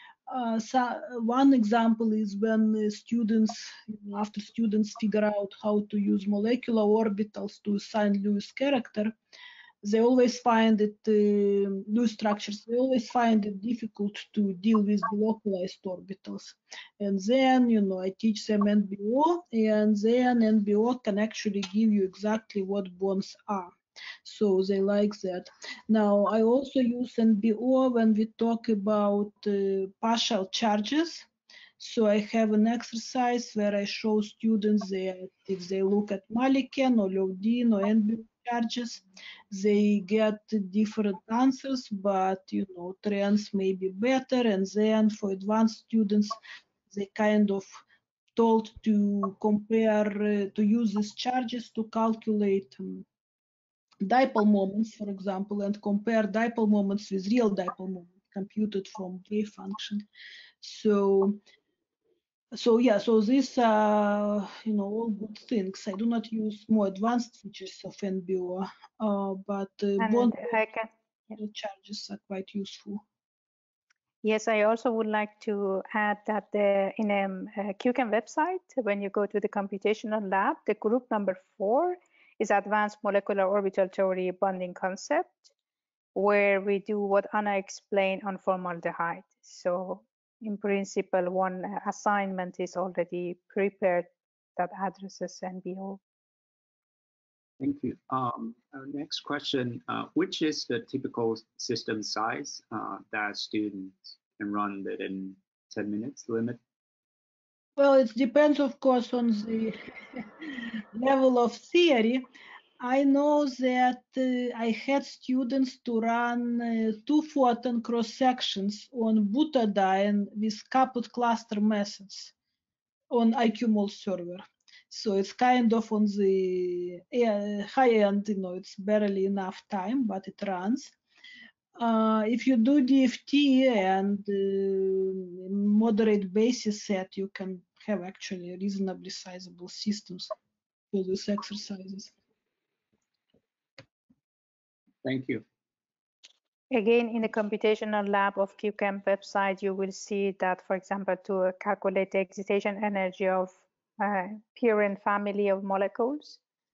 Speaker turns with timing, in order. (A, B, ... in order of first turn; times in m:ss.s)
0:00.3-0:09.1 A
0:09.8-0:31.3 A
0:31.8-0:46.4 A
0:46.9-0:47.8 A
0:48.4-0:53.0 A
0:54.0-1:00.0 A
1:00.6-1:01.4 A
1:02.5-1:10.5 A
1:10.0-1:10.9 B
1:11.4-1:13.0 A
1:14.2-1:25.5 B
1:26.1-1:36.0 B
1:37.6-1:46.6 C
1:47.8-1:52.2 A
1:52.8-2:02.3 A
2:03.1-2:10.9 A
2:11.8-2:20.3 A
2:20.9-2:22.1 A
2:25.0-2:25.4 C
2:26.7-2:36.4 B